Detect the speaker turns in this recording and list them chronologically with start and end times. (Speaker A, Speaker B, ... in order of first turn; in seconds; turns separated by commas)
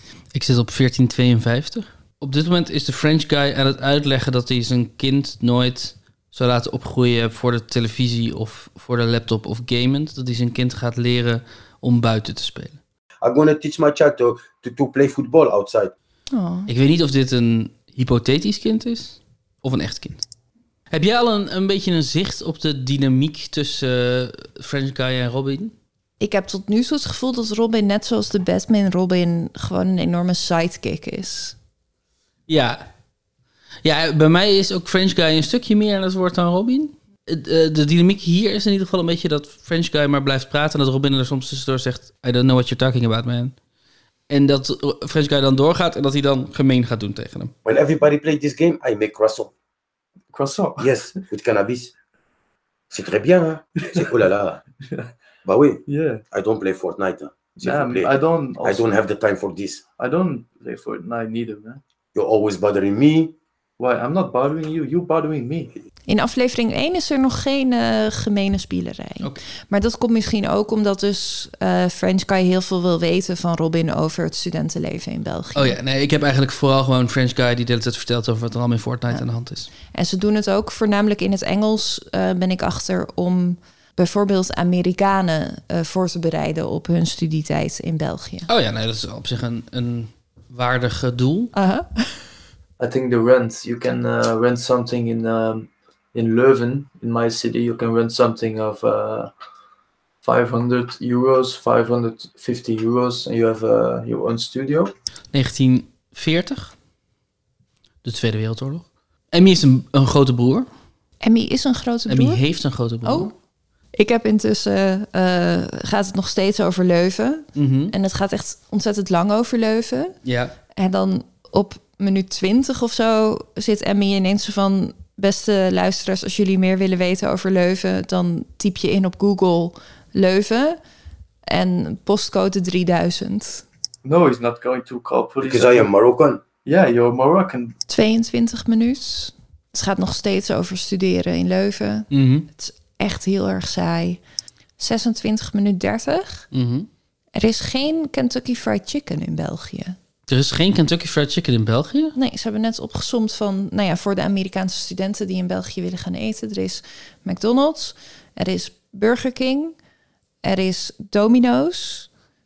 Speaker A: 0.3-12.8, Speaker B: 13.2-15.9, Speaker C: 16.3-16.7, Speaker A: 16.7-20.2, Speaker A: 20.9-25.7, Speaker C: 26.2-31.6, Speaker A: 32.5-32.8, Speaker A: 33.8-43.5, Speaker A: 44.3-47.5, Speaker B: 47.6-49.5, Speaker D: 50.3-51.2, Speaker B: 50.8-51.9, Speaker B: 52.9-54.6, Speaker B: 55.4-58.1, Speaker D: 55.8-56.2, Speaker D: 57.5-59.0, Speaker B: 58.6-59.8, Speaker D: 60.0-61.8, Speaker B: 62.1-63.3, Speaker D: 63.8-65.7, Speaker C: 66.1-75.8, Speaker A: 75.5-79.7, Speaker C: 79.9-88.5, Speaker A: 88.5-91.5, Speaker C: 91.5-92.2, Speaker D: 92.8-99.3, Speaker D: 100.2-104.9, Speaker A: 105.3-106.7, Speaker A: 108.0-110.7, Speaker C: 111.2-112.4, Speaker A: 112.1-113.3, Speaker C: 113.0-113.3, Speaker C: 113.9-120.2, Speaker A: 117.5-117.9, Speaker A: 120.2-120.5, Speaker C: 120.7-130.8, Speaker C: 131.4-133.6, Speaker D: 134.0-135.9, Speaker B: 135.4-136.4, Speaker D: 136.6-137.8, Speaker C: 137.9-144.2, Speaker A: 142.1-142.5, Speaker C: 144.8-146.5, Speaker A: 146.5-146.9, Speaker C: 147.3-150.0, Speaker A: 150.3-152.1, Speaker C: 152.1-159.8, Speaker C: 160.4-162.1